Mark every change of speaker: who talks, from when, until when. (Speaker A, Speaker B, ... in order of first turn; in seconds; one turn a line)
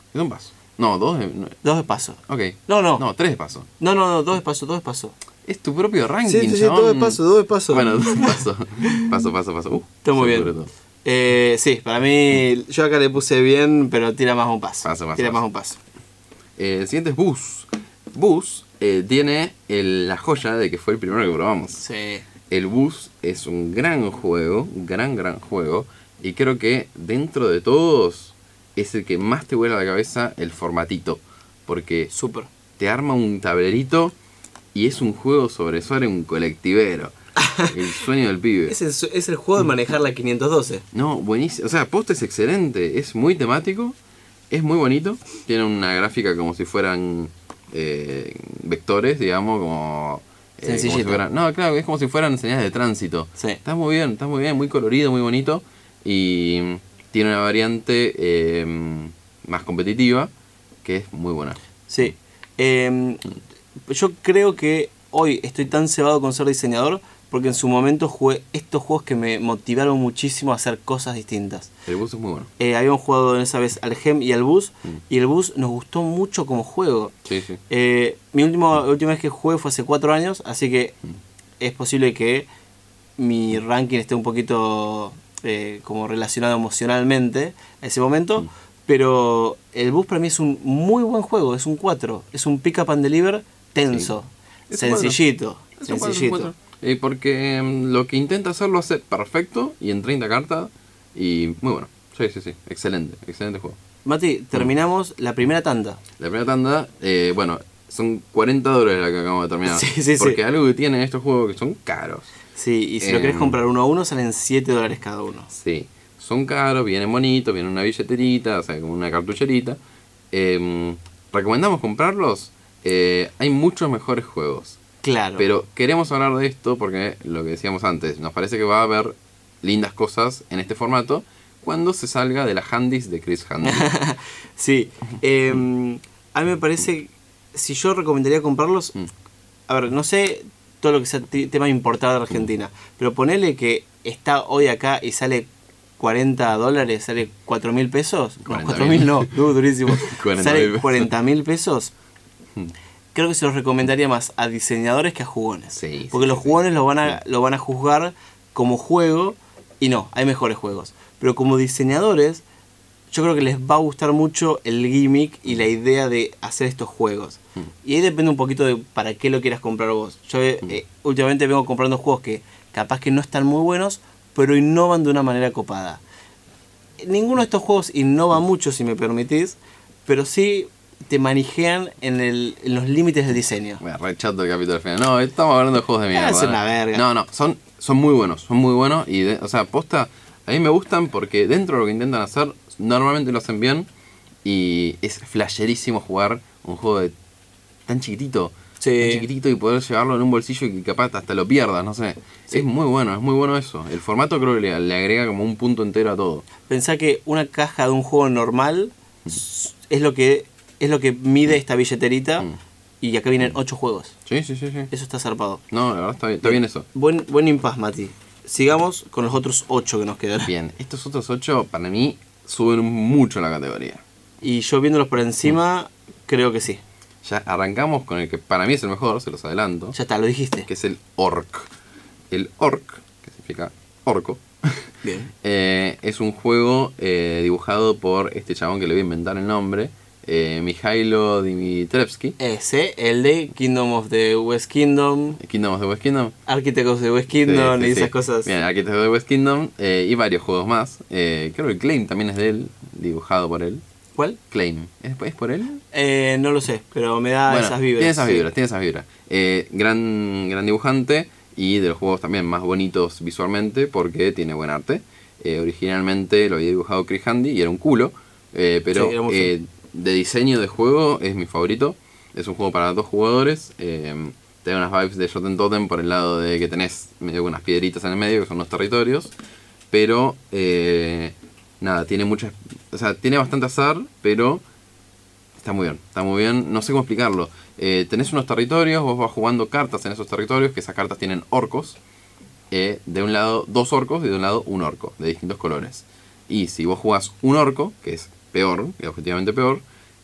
Speaker A: 0.1-1.6
Speaker B: 1.6-3.0
Speaker A: 2.3-3.7
Speaker B: 3.8-5.1
Speaker A: 5.4-7.2
Speaker B: 6.2-9.1
Speaker A: 7.7-10.7
Speaker B: 10.0-15.8
Speaker A: 14.8-15.4
Speaker A: 16.6-21.8
Speaker B: 21.8-22.2
Speaker A: 22.5-32.1
Speaker B: 32.1-32.5
Speaker A: 32.8-34.1
Speaker A: 34.7-37.1
Speaker B: 37.4-37.7
Speaker A: 37.6-38.8
Speaker B: 38.7-40.8
Speaker A: 40.9-44.0
Speaker A: 44.5-60.3
Speaker B: 50.6-51.2
Speaker A: 60.8-61.6
Speaker B: 61.9-63.2
Speaker B: 63.9-71.7
Speaker A: 71.9-72.5
Speaker B: 72.6-77.1
Speaker A: 77.2-77.6
Speaker B: 77.7-81.0
Speaker B: 81.6-82.5
Speaker B: 83.2-96.5
Speaker A: 94.7-95.2
Speaker A: 95.8-103.8
Speaker B: 104.0-106.0
Speaker A: 106.2-112.3
Speaker B: 109.7-110.4
Speaker B: 112.5-115.5
Speaker A: 113.0-113.6
Speaker A: 115.5-119.8
Speaker A: 120.3-124.8
Speaker B: 125.0-125.5
Speaker A: 125.4-133.9
Speaker B: 133.6-138.9
Speaker B: 139.7-151.9
Speaker A: 148.4-149.3
Speaker A: 149.9-151.1
Speaker B: 153.1-162.4
Speaker A: 155.7-157.1
Speaker B: 163.1-176.0
Speaker B: 177.0-183.8
Speaker A: 183.8-193.9
Speaker B: 186.1-187.0
Speaker A: 194.4-197.1
Speaker A: 197.8-206.4
Speaker B: 198.8-199.2
Speaker B: 206.7-212.5
Speaker B: 213.0-214.2
Speaker A: 214.2-214.9
Speaker B: 214.9-215.6
Speaker A: 215.7-216.8
Speaker B: 216.4-220.5
Speaker A: 220.4-224.0
Speaker B: 224.4-226.8
Speaker A: 227.2-229.9
Speaker B: 229.9-230.7
Speaker A: 230.7-231.7
Speaker A: 232.3-234.9
Speaker B: 235.0-235.3
Speaker A: 235.4-242.3
Speaker B: 242.4-245.4
Speaker A: 245.4-246.3
Speaker B: 246.5-248.5
Speaker A: 247.3-253.8
Speaker A: 254.5-255.8
Speaker B: 255.9-258.4
Speaker A: 257.5-279.3
Speaker B: 268.9-269.5
Speaker A: 279.9-284.6
Speaker A: 285.6-292.0
Speaker A: 292.7-299.8